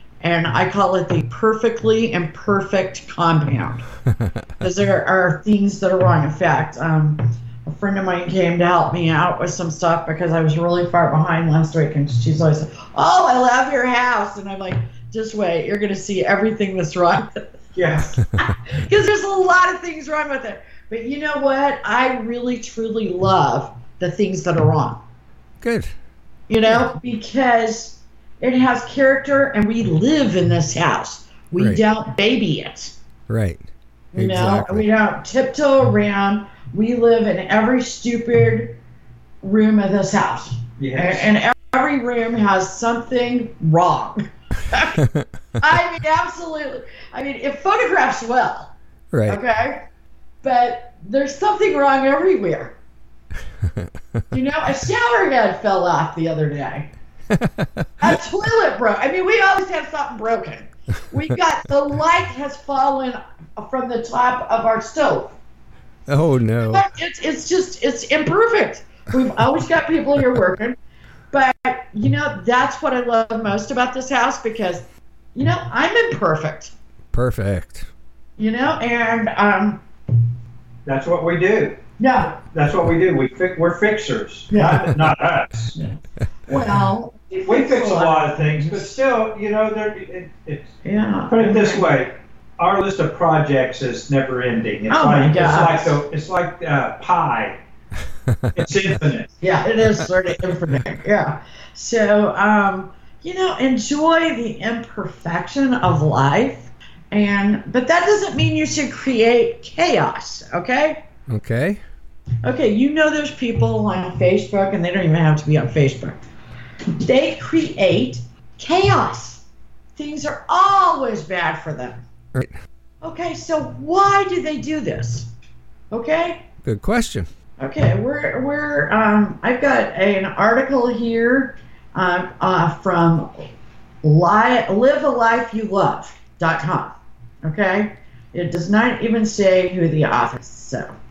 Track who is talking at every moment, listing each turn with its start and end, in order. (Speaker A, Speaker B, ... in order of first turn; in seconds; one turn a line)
Speaker A: 0.2-3.8
Speaker A: 4.6-17.4
Speaker B: 17.8-18.2
Speaker A: 18.1-25.0
Speaker C: 25.6-25.9
Speaker A: 26.5-33.0
Speaker C: 33.3-33.6
Speaker A: 34.1-38.8
Speaker C: 34.2-34.9
Speaker A: 39.4-45.0
Speaker B: 40.8-41.3
Speaker C: 45.0-45.3
Speaker A: 45.6-48.7
Speaker C: 49.1-49.4
Speaker A: 49.3-49.9
Speaker A: 50.4-52.7
Speaker C: 53.6-53.9
Speaker A: 54.3-56.9
Speaker C: 57.3-58.1
Speaker A: 58.0-65.3
Speaker C: 66.1-66.9
Speaker A: 66.6-70.8
Speaker A: 71.3-74.8
Speaker A: 75.3-76.7
Speaker C: 77.1-77.9
Speaker A: 78.4-79.8
Speaker B: 80.9-81.8
Speaker A: 82.0-82.4
Speaker B: 82.3-85.8
Speaker A: 84.5-85.0
Speaker A: 85.7-89.0
Speaker B: 87.5-90.7
Speaker A: 90.8-91.9
Speaker B: 91.3-97.6
Speaker A: 94.9-96.0
Speaker C: 98.3-98.7
Speaker B: 98.5-99.4
Speaker A: 99.4-111.0
Speaker C: 111.3-111.8
Speaker A: 112.4-116.2
Speaker A: 117.0-119.4
Speaker A: 120.0-122.0
Speaker A: 123.0-125.3
Speaker A: 125.9-126.4
Speaker C: 126.6-127.3
Speaker A: 127.6-133.5
Speaker A: 134.0-136.9
Speaker A: 137.4-140.9